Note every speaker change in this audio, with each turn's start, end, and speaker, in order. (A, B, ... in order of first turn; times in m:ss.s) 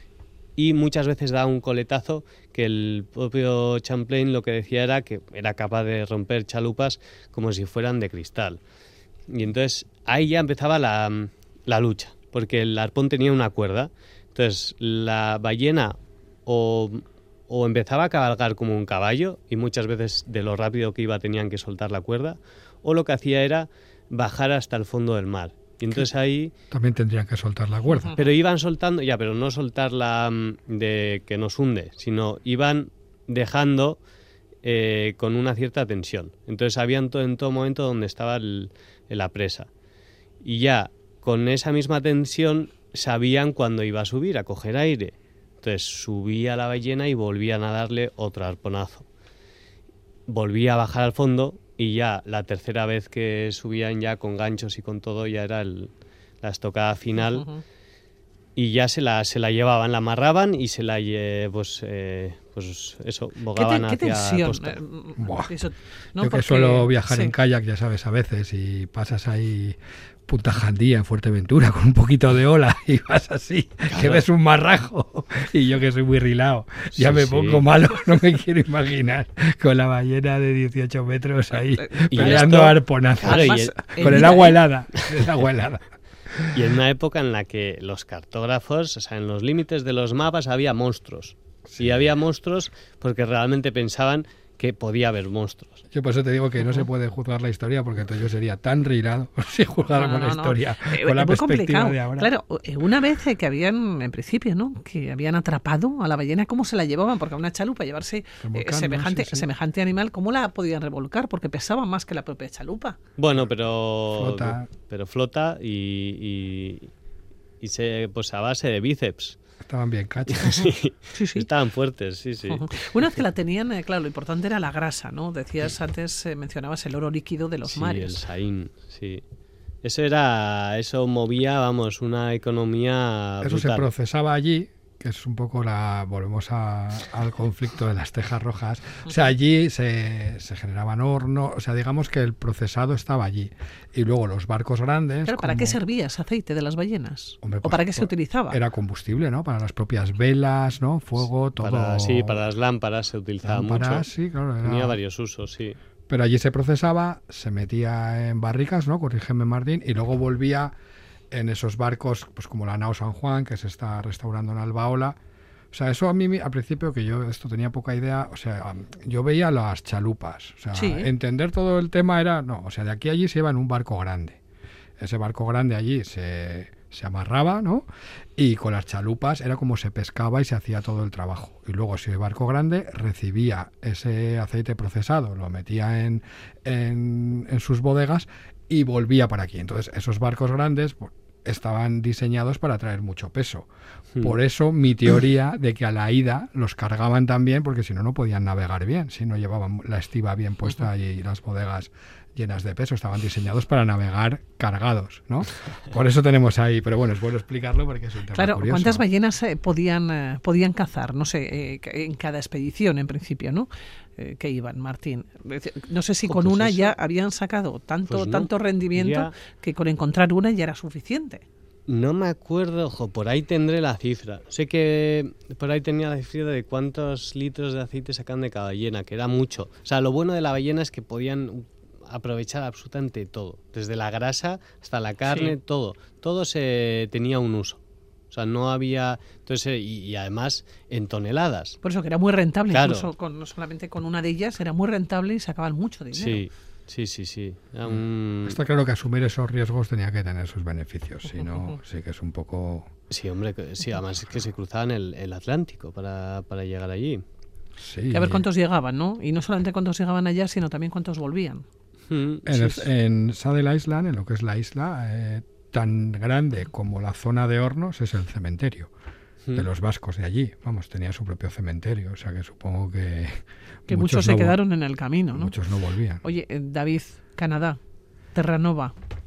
0:00.6-0:08.6 A
0:09.3-0:16.0 A
0:16.5-0:26.5 A
0:26.7-0:28.2 B
0:28.1-0:34.0 A
0:34.6-0:39.7 A
0:40.4-0:49.1 A
0:50.3-0:55.9 A
0:56.4-0:57.5 A
0:57.2-0:57.6 C
0:58.6-1:04.8 A
1:03.6-1:07.4 C
1:05.2-1:05.6 B
1:06.2-1:09.8 B
1:10.3-1:26.7 B
1:13.9-1:14.2 A
1:16.9-1:17.7 A
1:21.6-1:24.6 C
1:22.1-1:25.3 A
1:26.5-1:35.8 A
1:31.7-1:32.0 B
1:35.9-1:42.3 B
1:39.9-1:53.0 C
1:48.4-1:49.5 B
1:53.2-1:56.9 A
1:54.2-1:54.7 B
1:57.6-1:59.4 A
1:59.6-2:00.7 B
2:00.3-2:02.9 A
2:01.1-2:01.5 C
2:02.5-2:08.2 C
2:07.6-2:09.2 A
2:09.8-2:13.9 A
2:13.4-2:25.8 B
2:25.2-2:28.6 C
2:27.4-2:32.4 B
2:31.2-2:34.1 A
2:33.4-2:35.0 B
2:34.6-2:35.8 A
2:36.1-2:40.7 B
2:41.3-2:45.2 B
2:45.7-2:54.4 B
2:50.7-2:51.1 C
2:55.0-2:57.9 B
2:58.4-3:13.7 B
3:14.2-3:29.0 B
3:28.3-3:41.4 C
3:36.2-3:37.0 A
3:38.1-3:39.3 A
3:41.9-3:57.8 A
3:55.3-3:55.6 C
3:58.3-4:01.8 A
4:01.8-4:06.4 C
4:02.7-4:03.1 A
4:06.1-4:08.6 A
4:07.9-4:12.9 B
4:13.1-4:17.2 A
4:17.8-4:18.5 B
4:18.1-4:21.6 C
4:22.1-4:22.9 A
4:22.4-4:28.9 B
4:29.6-4:34.6 B
4:33.9-4:35.6 C
4:35.3-4:36.2 B
4:36.2-4:37.8 C
4:38.3-4:38.9 C